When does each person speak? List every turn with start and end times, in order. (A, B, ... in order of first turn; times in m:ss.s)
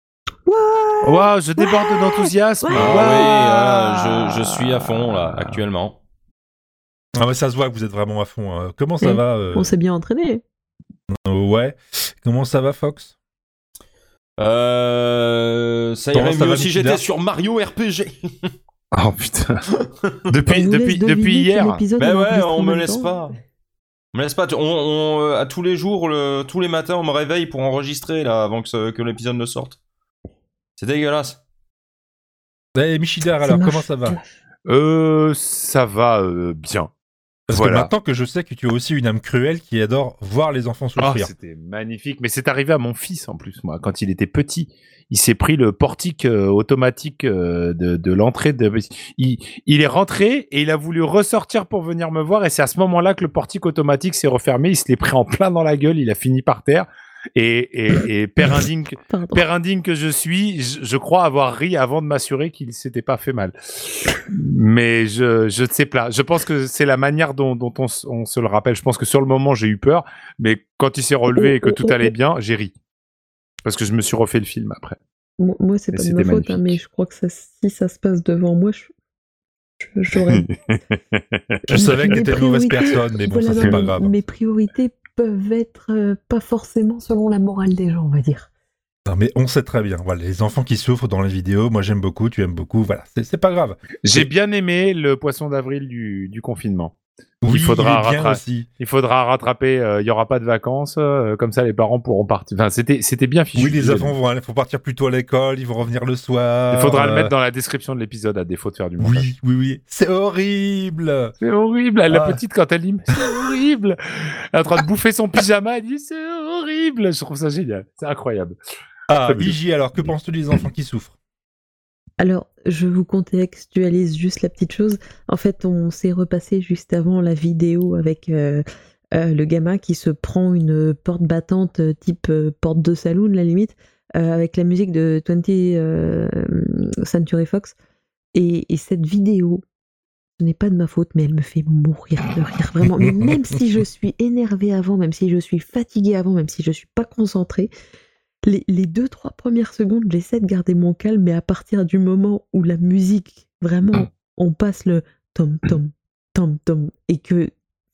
0:00.5-0:03.0 A
0:01.0-0:05.5 B
0:02.7-0:06.0 C
0:07.2-0:09.7 D
0:09.0-0:10.4 A
0:11.1-0:13.1 D
0:14.4-0:18.2 C
0:16.1-0:17.0 D
0:18.9-0:19.6 B
0:20.3-0:21.8 B
0:20.5-0:23.2 A
0:22.0-0:23.4 C
0:24.1-0:29.8 C
0:30.8-0:31.4 C
0:32.8-0:34.2 D
0:33.4-0:34.3 A
0:34.7-0:36.9 B
0:37.5-0:37.9 B
0:37.5-0:41.3 D
0:41.0-1:12.8 B
0:59.1-0:59.5 A
1:11.3-1:12.1 A
1:13.6-1:15.0 B
1:15.4-1:18.9 A
1:15.9-1:16.8 B
1:19.8-1:20.5 A
1:20.3-1:21.4 B
1:21.7-1:24.2 D
1:21.7-1:28.5 A
1:29.1-1:34.3 D
1:34.0-1:37.0 B
1:37.4-1:38.7 D
1:37.5-1:44.2 B
1:43.6-1:47.3 D
1:46.7-1:49.3 B
1:49.0-1:51.4 D
1:51.4-1:58.6 B
1:52.1-1:52.4 D
1:59.1-2:01.1 D
1:59.2-2:00.6 B
2:02.2-2:17.8 A
2:18.3-2:19.6 A
2:20.4-2:27.7 A
2:23.0-2:23.2 D
2:28.4-2:37.5 A